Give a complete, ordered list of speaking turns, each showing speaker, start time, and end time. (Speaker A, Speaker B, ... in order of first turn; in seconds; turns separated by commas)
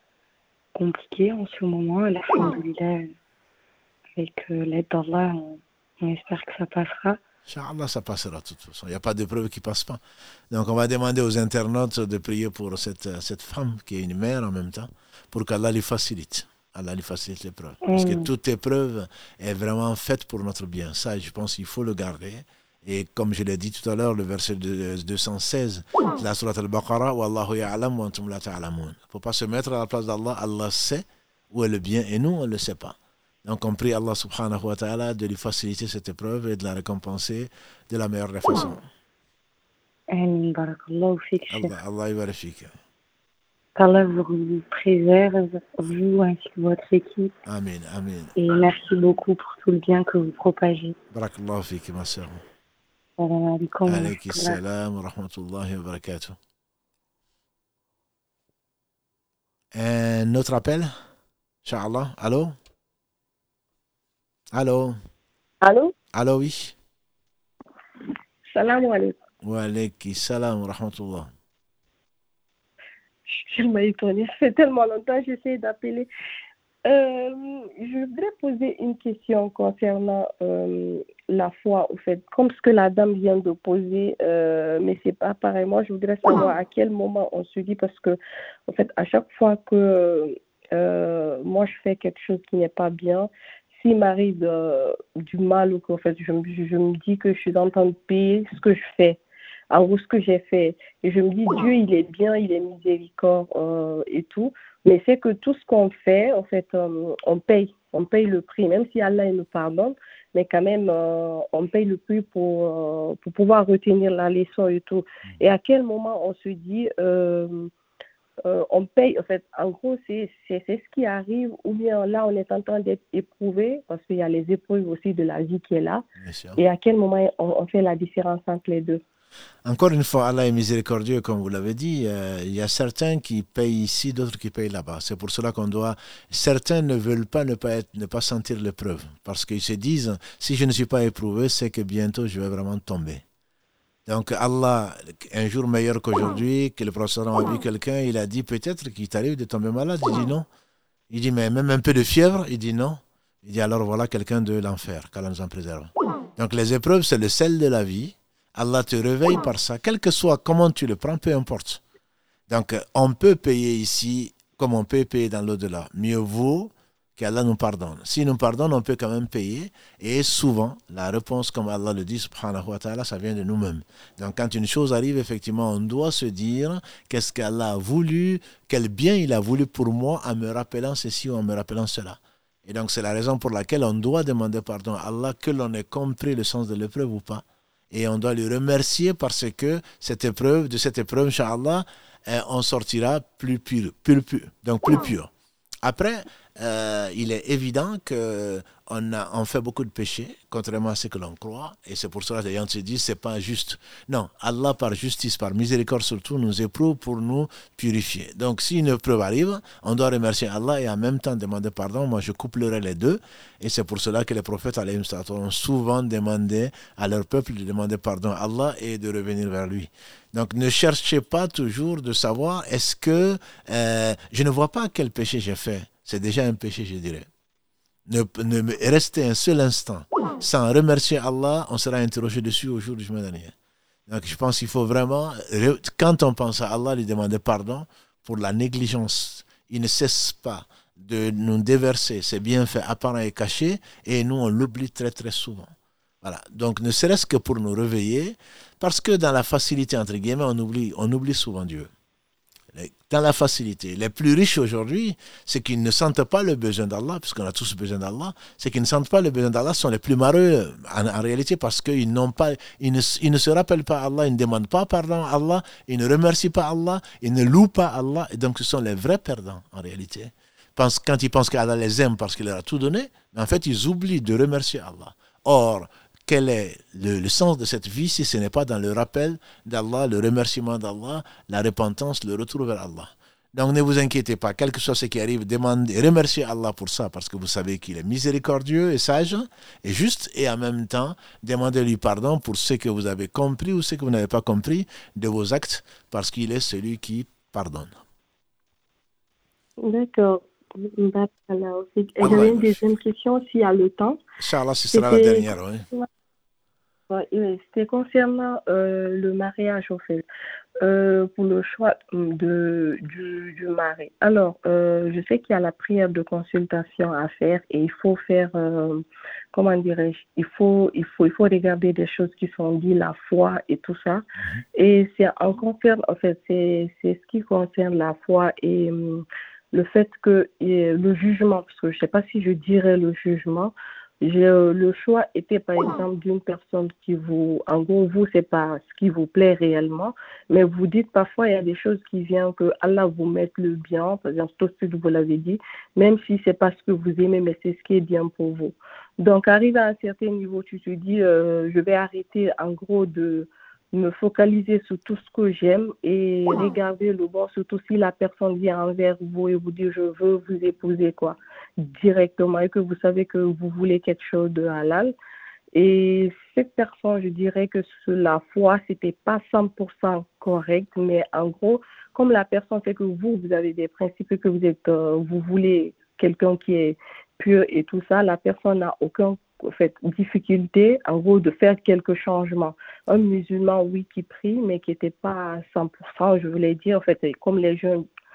Speaker A: 0.7-3.1, Speaker A: 4.2-7.2, Speaker B: 7.5-38.9, Speaker A: 17.8-18.3, Speaker A: 40.1-41.7, Speaker B: 41.5-42.7, Speaker A: 43.8-47.3, Speaker B: 47.5-48.3, Speaker A: 48.4-51.0, Speaker B: 51.1-52.4, Speaker A: 53.2-54.6, Speaker B: 53.9-56.4, Speaker B: 59.7-60.9, Speaker B: 61.6-62.5, Speaker B: 64.5-65.0, Speaker C: 65.6-65.9, Speaker B: 66.1-66.8, Speaker C: 68.5-69.2, Speaker B: 69.4-71.3, Speaker C: 73.3-76.1, Speaker C: 76.8-99.2, Speaker C: 99.7-117.7, Speaker C: 118.4-126.0, Speaker B: 126.2-126.6, Speaker C: 126.6-129.0, Speaker B: 129.6-143.2, Speaker B: 144.1-150.5, Speaker B: 151.1-161.8, Speaker B: 162.5-195.3, Speaker B: 195.8-227.3, Speaker B: 228.1-233.5, Speaker B: 234.1-251.9, Speaker B: 252.7-297.9, Speaker C: 299.8-304.2, Speaker B: 302.2-302.8, Speaker B: 304.4-305.9, Speaker C: 304.9-306.1, Speaker C: 307.1-310.2, Speaker C: 310.8-324.2, Speaker B: 324.4-324.6, Speaker C: 324.7-365.1, Speaker C: 365.7-388.0